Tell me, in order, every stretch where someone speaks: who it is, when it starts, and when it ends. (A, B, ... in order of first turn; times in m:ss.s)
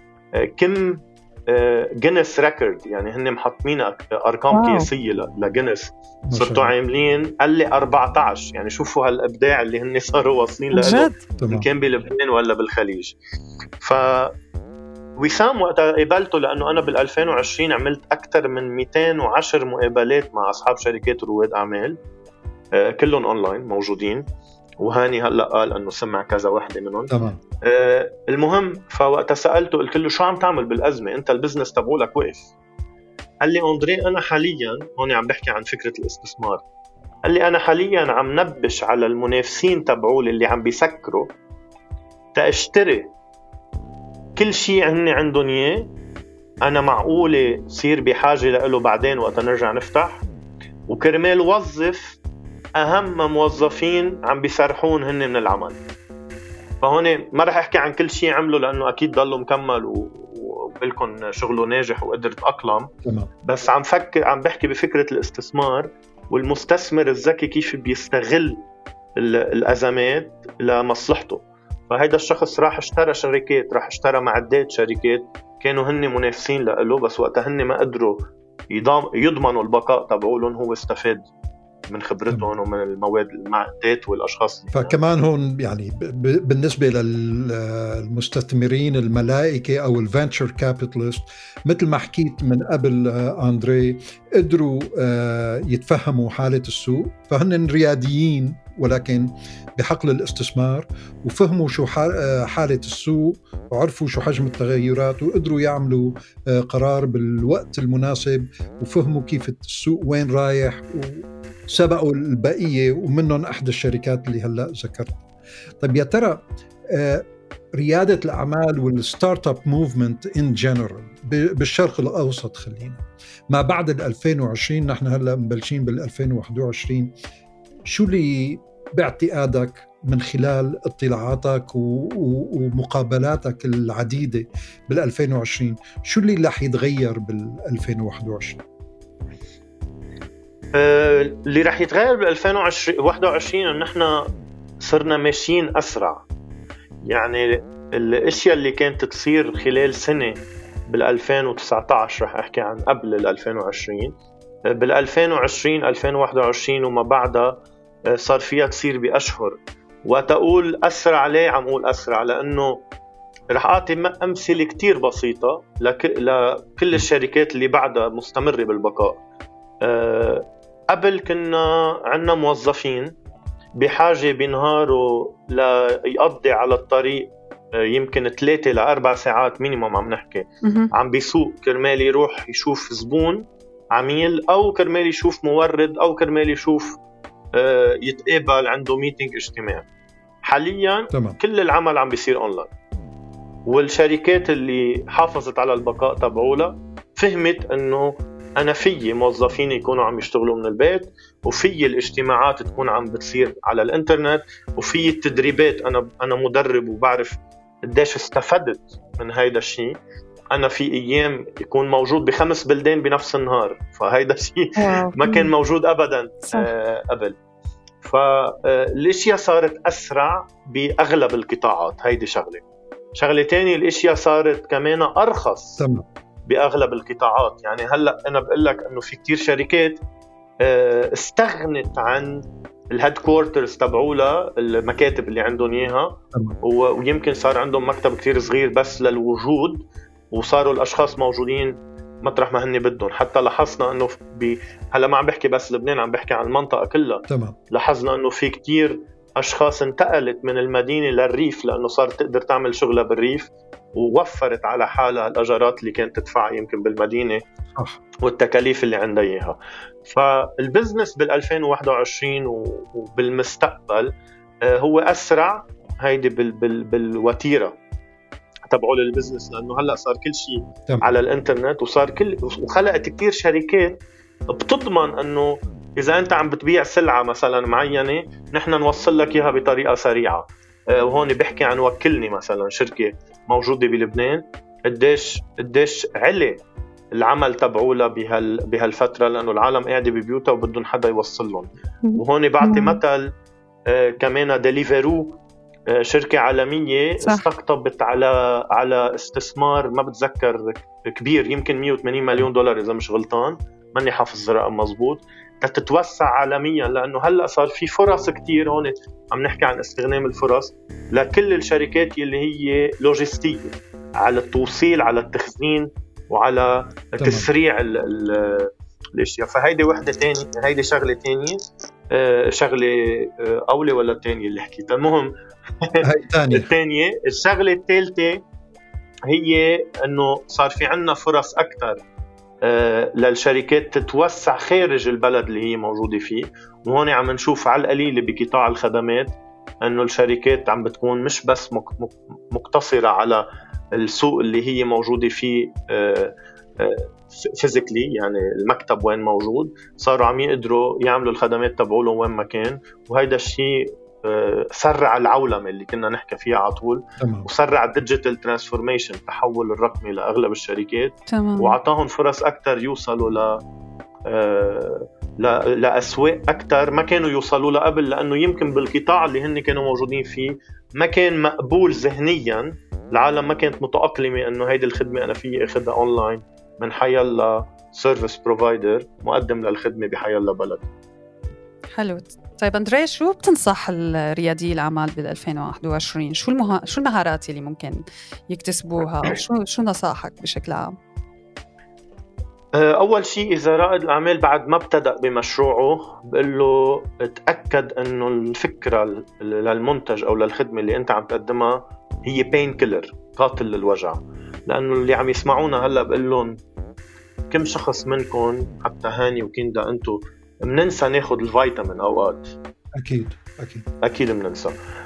0:00.4-0:13.2 A
0:04.5-0:04.9 B
0:06.3-0:06.7 C
0:10.7-0:11.2 B
0:11.4-0:11.6 C
0:13.8-0:14.3 A
0:15.2-0:22.0 A
0:22.7-0:24.3 A
0:24.8-0:32.5 A
0:27.1-0:27.4 C
0:33.4-0:36.6 A
0:37.3-0:41.3 A
0:42.3-0:43.1 A
0:44.4-0:45.9 A
0:46.6-0:50.2 A
0:50.9-0:52.2 A
0:52.8-0:55.8 A
0:56.8-1:02.9 A
1:03.0-1:03.3 C
1:03.4-1:08.6 A
1:09.2-1:21.2 A
1:21.9-1:24.9 A
1:24.7-1:55.2 C
1:55.8-2:07.1 C
2:07.9-2:18.6 C
2:20.7-2:24.2 A
2:24.8-2:26.2 A
2:27.1-2:34.1 A
2:34.7-2:42.8 A
2:43.5-2:49.2 A
2:49.8-2:53.1 A
2:53.8-3:06.9 A
3:00.6-3:00.9 B
3:07.5-3:09.9 A
3:10.4-3:12.7 A
3:11.1-3:11.4 C
3:13.7-3:30.0 A
3:30.5-3:37.4 A
3:34.8-3:35.5 B
3:38.0-3:42.6 A
3:43.2-3:45.8 A
3:45.8-3:46.0 C
3:46.5-3:50.0 A
3:50.6-4:17.4 A
4:07.3-4:07.6 C
4:17.7-4:18.0 C
4:18.2-4:24.1 A
4:24.6-4:27.7 A
4:28.7-4:34.0 A
4:34.5-4:46.6 A
4:47.1-4:53.3 A
4:52.0-4:53.0 B
4:53.9-4:55.4 A
4:55.9-5:21.6 A
5:17.2-5:17.5 C
5:22.1-5:28.4 A
5:26.0-5:26.7 C
5:29.3-5:32.0 A
5:32.6-5:43.4 A
5:43.9-6:03.6 A
5:57.2-5:57.5 C
6:01.3-6:01.7 B
6:04.3-6:20.9 A
6:22.0-6:30.9 B
6:32.8-6:46.6 A
6:47.5-6:52.5 A
6:52.9-6:53.8 C
6:54.0-6:54.8 A